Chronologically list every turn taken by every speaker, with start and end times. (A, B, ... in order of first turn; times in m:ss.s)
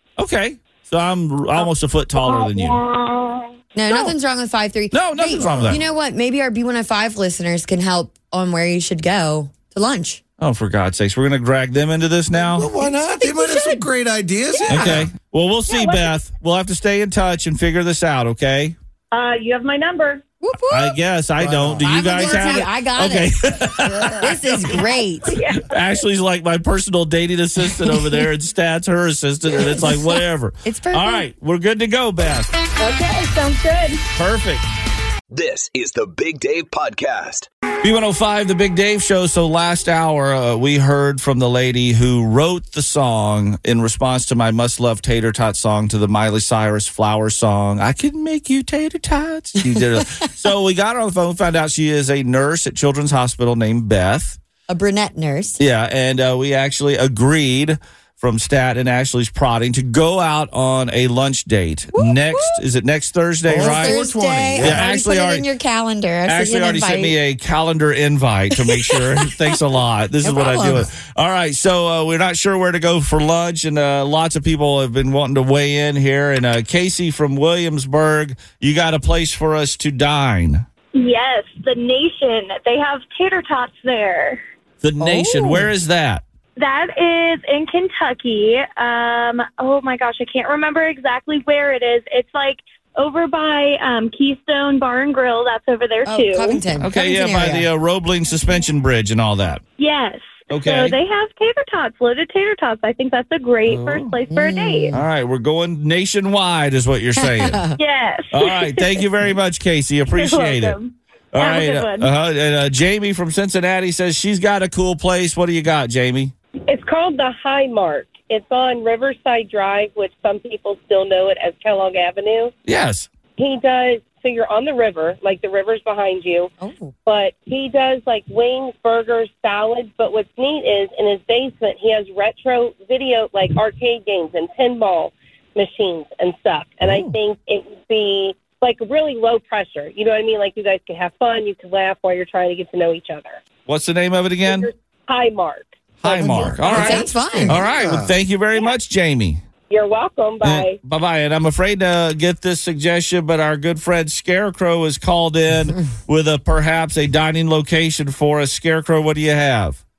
0:00.2-0:02.8 A
0:01.6-0:04.1 B
0:03.7-0:10.2 C
0:04.9-0:05.8 A
0:05.3-0:05.8 D
0:10.4-0:12.7 A
0:12.4-0:15.1 D
0:14.7-0:18.7 A
0:15.7-0:16.1 B
0:19.1-0:20.2 B
0:20.4-0:21.0 C
0:20.7-0:24.8 A
0:21.4-0:22.6 D
0:21.8-0:23.4 C
0:23.8-0:24.4 D
0:24.2-0:25.4 C
0:25.3-0:25.8 B
0:25.5-0:32.5 A
0:29.8-0:30.1 C
0:30.6-0:31.2 C
0:32.8-0:34.0 B
0:34.1-0:34.6 A
0:35.3-0:37.5 E
0:37.8-0:54.4 A
0:49.6-0:50.0 C
0:54.7-0:55.6 C
0:55.6-1:05.4 A
1:01.9-1:02.6 C
1:03.5-1:04.9 D
1:03.5-1:07.2 C
1:06.2-1:20.6 A
1:08.6-1:09.6 C
1:10.2-1:10.9 C
1:20.9-1:24.4 F
1:24.8-1:26.2 A
1:25.0-1:25.7 C
1:26.6-1:36.6 F
1:36.0-1:37.7 C
1:36.8-1:39.6 A
1:39.8-1:44.9 F
1:40.5-1:41.0 A
1:43.7-1:44.1 A
1:44.3-1:45.0 C
1:44.9-1:47.6 A
1:47.2-1:47.8 C
1:47.8-1:49.0 F
1:48.3-1:50.8 A
1:50.2-1:50.8 F
1:51.3-1:56.3 A
1:51.4-1:52.1 F
1:56.7-2:02.5 G
2:02.6-2:03.1 A
2:03.4-2:06.5 G
2:06.6-2:06.9 C
2:07.0-2:23.4 G
2:23.7-2:24.7 A
2:24.4-2:26.7 G
2:26.0-2:29.4 A
2:26.1-2:28.1 D
2:26.7-2:27.6 C
2:29.7-2:30.8 G
2:30.4-2:39.8 A